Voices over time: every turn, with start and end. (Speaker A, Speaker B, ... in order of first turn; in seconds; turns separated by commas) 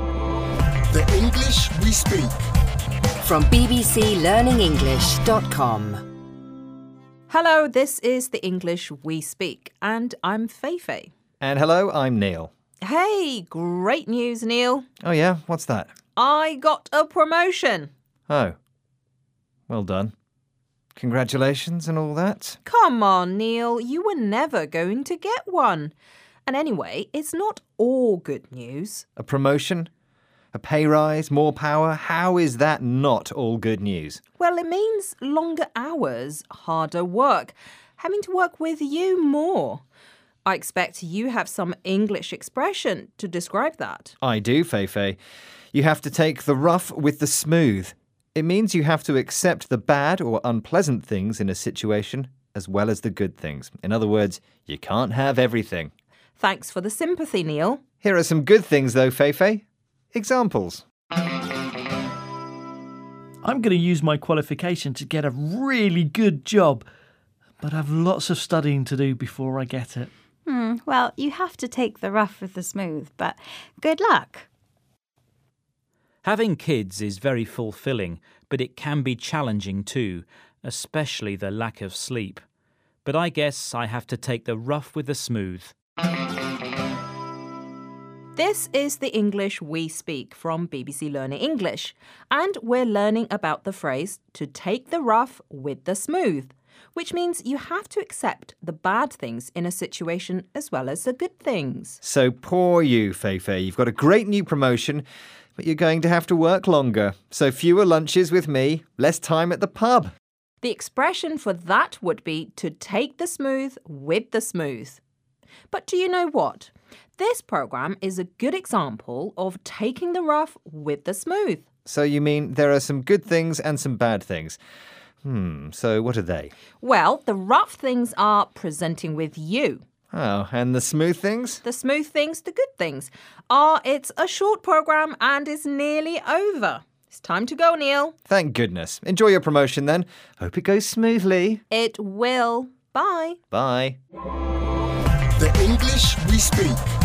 Speaker A: 0.9-2.3, Speaker B: 3.2-6.0, Speaker C: 7.3-11.1, Speaker D: 11.4-12.5, Speaker C: 12.8-14.8, Speaker D: 15.0-15.9, Speaker C: 16.1-17.9, Speaker D: 18.3-18.6, Speaker D: 19.7-20.1, Speaker D: 20.9-22.6, Speaker C: 22.6-25.9, Speaker C: 26.4-29.0, Speaker D: 29.2-29.9, Speaker D: 30.5-34.2, Speaker C: 34.4-39.8, Speaker C: 40.4-44.1, Speaker D: 44.2-45.2, Speaker D: 45.7-55.9, Speaker C: 56.4-57.8, Speaker D: 58.0-60.8, Speaker E: 63.4-66.8, Speaker E: 67.6-70.1, Speaker F: 70.5-74.5, Speaker G: 76.2-82.4, Speaker G: 83.0-85.7, Speaker C: 88.3-102.0, Speaker D: 102.0-105.0, Speaker D: 105.6-110.1, Speaker C: 110.6-115.0, Speaker C: 115.7-121.6, Speaker D: 121.8-124.6, Speaker D: 125.2-126.5, Speaker C: 126.8-129.8, Speaker D: 130.1-131.6, Speaker C: 131.6-138.1, Speaker D: 138.3-141.6, Speaker C: 141.7-143.4, Speaker D: 143.5-144.0, Speaker A: 145.4-146.8